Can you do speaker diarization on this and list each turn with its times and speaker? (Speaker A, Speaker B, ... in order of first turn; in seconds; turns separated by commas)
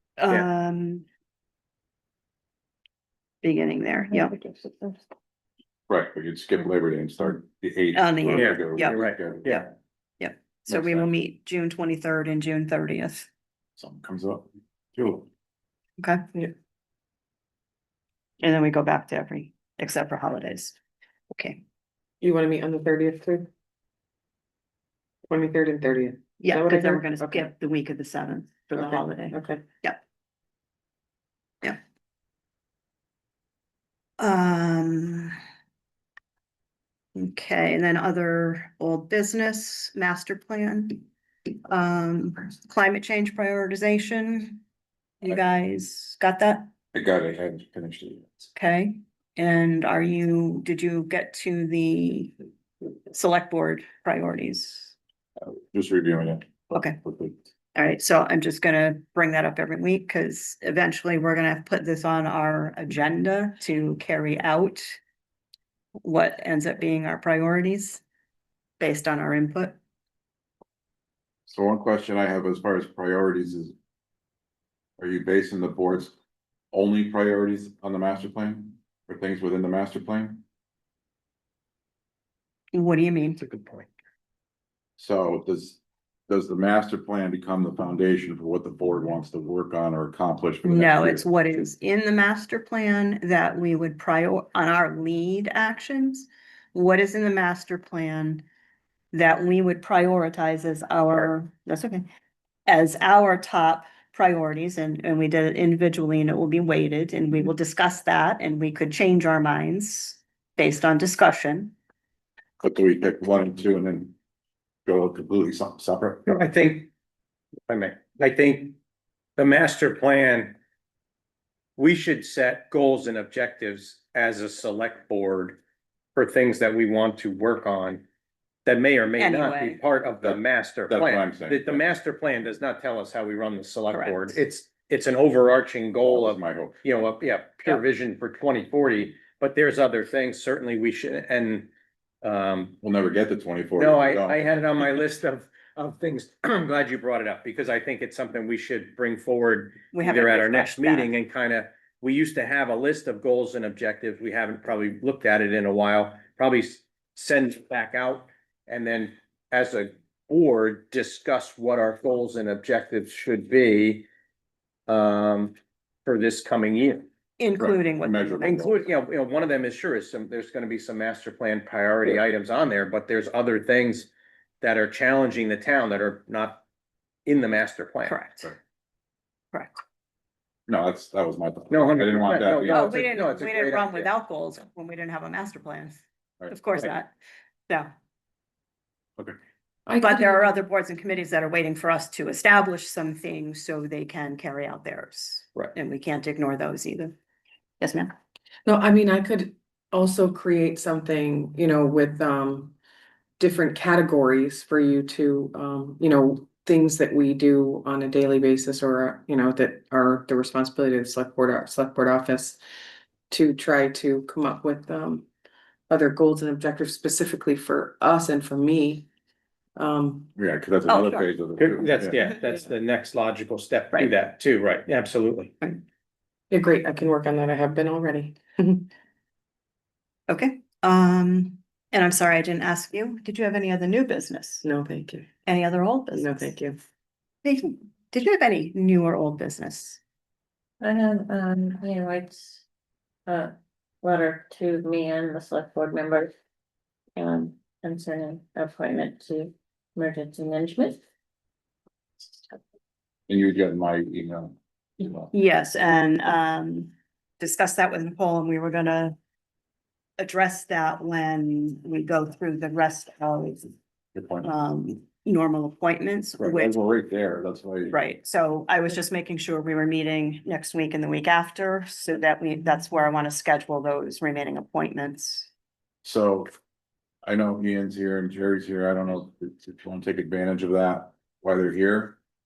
Speaker A: 0.2-1.1, Speaker A: 3.4-4.3, Speaker B: 4.1-5.0, Speaker C: 5.9-9.7, Speaker A: 7.9-9.0, Speaker D: 8.3-9.7, Speaker A: 10.2-13.3, Speaker C: 10.7-11.0, Speaker C: 13.8-15.3, Speaker A: 18.4-20.8, Speaker A: 21.3-21.6, Speaker E: 22.2-23.5, Speaker E: 25.3-27.5, Speaker A: 26.4-30.0, Speaker E: 28.7-29.6, Speaker A: 34.2-35.3, Speaker A: 37.1-41.0, Speaker A: 41.7-44.6, Speaker A: 45.2-46.7, Speaker C: 46.9-48.5, Speaker A: 48.5-52.4, Speaker A: 53.1-54.9, Speaker C: 55.4-57.4, Speaker A: 56.7-57.0, Speaker A: 57.7-65.0, Speaker A: 66.0-68.0, Speaker A: 68.8-69.8, Speaker C: 71.5-73.7, Speaker C: 75.0-76.1, Speaker C: 76.7-80.4, Speaker A: 82.7-83.4, Speaker D: 83.4-83.9, Speaker C: 85.0-91.2, Speaker A: 90.6-98.4, Speaker A: 99.1-102.0, Speaker A: 102.7-111.7, Speaker C: 112.6-114.1, Speaker C: 114.8-116.2, Speaker D: 116.2-116.9, Speaker D: 117.7-118.8, Speaker D: 119.4-120.5, Speaker D: 121.8-125.6, Speaker D: 126.1-128.0, Speaker D: 128.7-141.7, Speaker A: 129.2-129.8, Speaker C: 130.2-131.8, Speaker A: 133.9-134.4, Speaker C: 136.0-136.9, Speaker D: 142.2-142.8, Speaker C: 142.8-144.5, Speaker D: 143.8-164.1, Speaker A: 149.9-151.1, Speaker D: 164.9-167.1, Speaker A: 167.4-168.8, Speaker C: 167.6-168.8, Speaker D: 168.4-174.1, Speaker D: 174.6-176.6, Speaker D: 177.2-178.5, Speaker A: 178.1-178.5, Speaker C: 180.7-183.0, Speaker D: 181.7-184.1, Speaker A: 182.7-187.1, Speaker E: 189.9-190.4, Speaker A: 190.0-197.1, Speaker A: 197.8-198.1, Speaker E: 198.7-202.7, Speaker E: 203.4-212.6, Speaker E: 213.3-215.2, Speaker E: 215.9-219.1, Speaker E: 219.8-220.3, Speaker C: 220.3-222.2, Speaker A: 220.9-221.3, Speaker D: 221.6-225.5, Speaker E: 226.5-228.9, Speaker A: 230.3-234.6, Speaker E: 234.6-235.3, Speaker A: 235.4-236.6, Speaker E: 236.2-236.8, Speaker A: 237.4-240.0, Speaker B: 240.8-242.6, Speaker B: 243.3-246.3, Speaker B: 247.2-251.0, Speaker C: 253.3-255.3, Speaker A: 255.3-259.1, Speaker A: 260.2-263.7, Speaker C: 264.1-264.5, Speaker A: 264.4-266.8, Speaker C: 266.4-267.9, Speaker A: 267.9-275.5, Speaker C: 276.0-276.5, Speaker C: 277.2-282.2